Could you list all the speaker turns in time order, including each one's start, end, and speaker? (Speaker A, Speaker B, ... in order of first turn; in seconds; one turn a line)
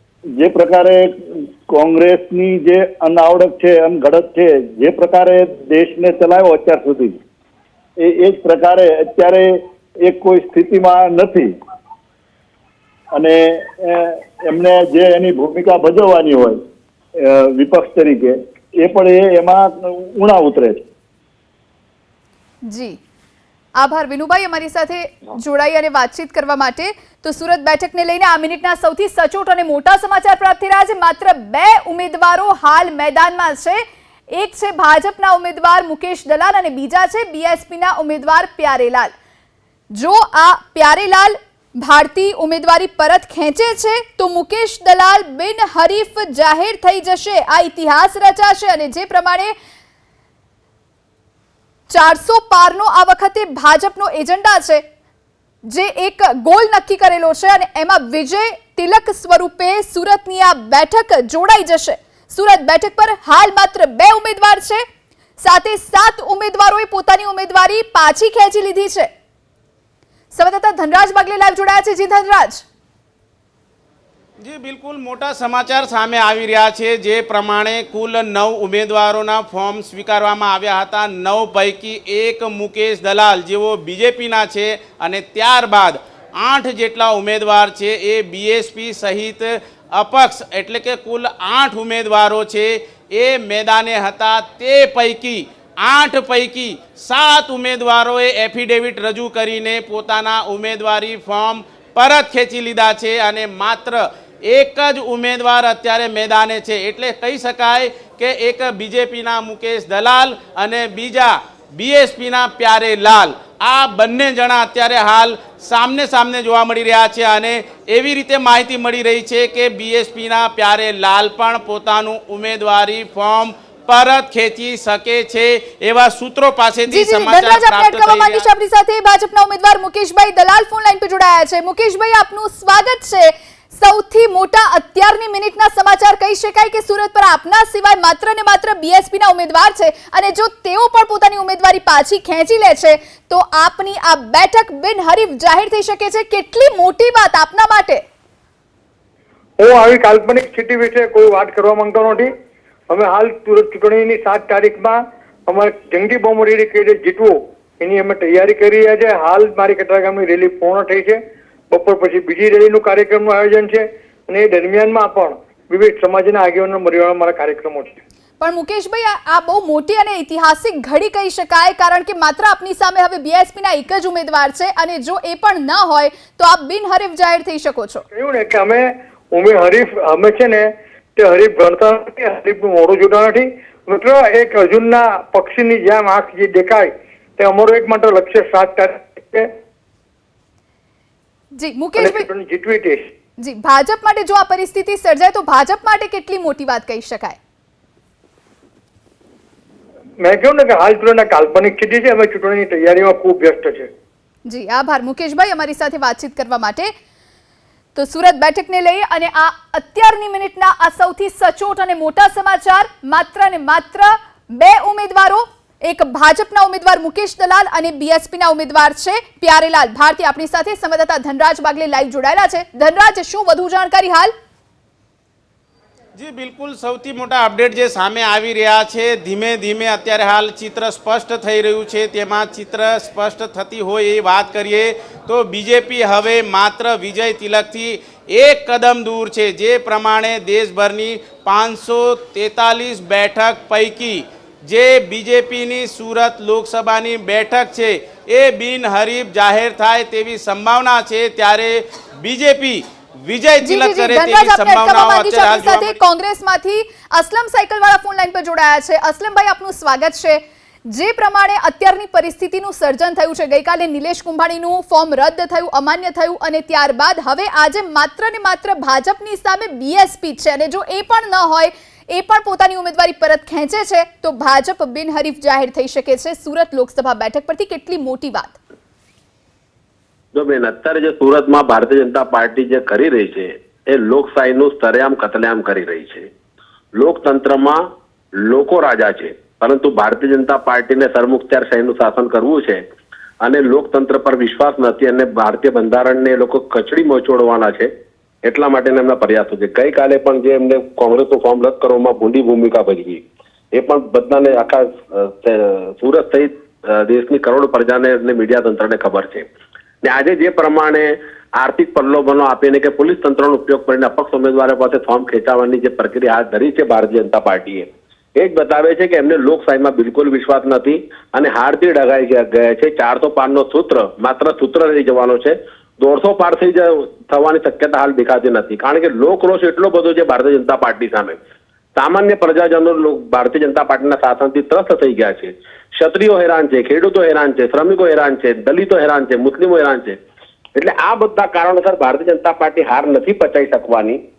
Speaker A: 0.4-7.2
Speaker A: 8.0-11.5
Speaker A: 13.1-16.6
Speaker A: 17.2-20.8
Speaker B: 22.6-23.0
Speaker B: 23.8-33.8
Speaker B: 34.3-39.1
Speaker B: 39.9-49.5
Speaker B: 51.9-54.8
Speaker B: 55.6-64.8
Speaker B: 65.4-69.1
Speaker B: 70.3-72.6
Speaker C: 74.4-128.4
Speaker B: 126.9-148.0
Speaker D: 149.6-152.3
Speaker D: 152.9-168.0
Speaker B: 168.4-178.0
Speaker D: 178.1-189.5
Speaker B: 191.6-192.2
Speaker D: 192.0-193.1
Speaker B: 193.4-197.4
Speaker D: 200.2-203.9
Speaker B: 204.5-206.9
Speaker B: 207.9-224.3
Speaker C: 226.2-256.0
Speaker B: 253.6-278.6
Speaker E: 280.3-286.3
Speaker E: 286.9-287.8
Speaker E: 288.4-292.8
Speaker E: 293.4-297.9
Speaker E: 298.4-309.5
Speaker E: 310.0-331.4
Speaker E: 331.9-340.2
Speaker E: 340.8-344.2